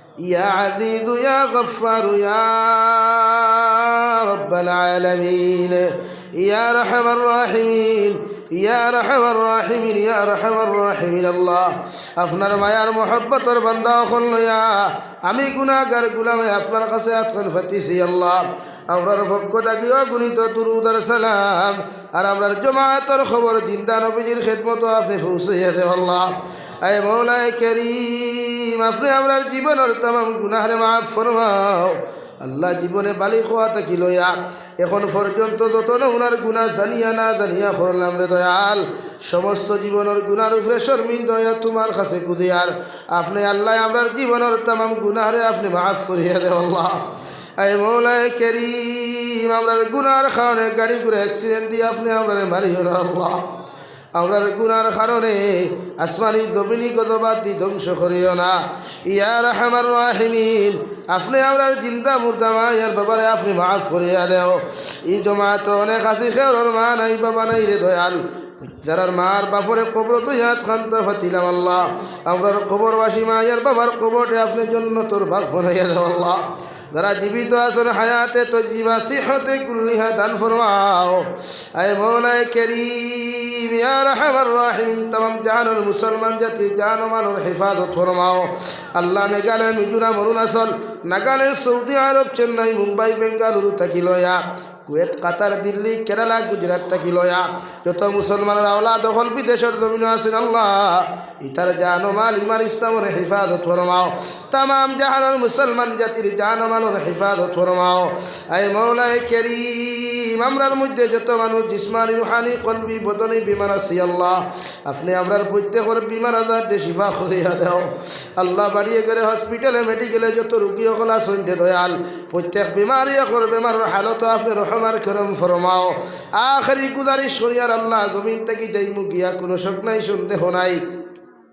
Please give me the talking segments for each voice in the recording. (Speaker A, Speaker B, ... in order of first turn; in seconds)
Speaker A: 0.2-53.5, 54.1-130.8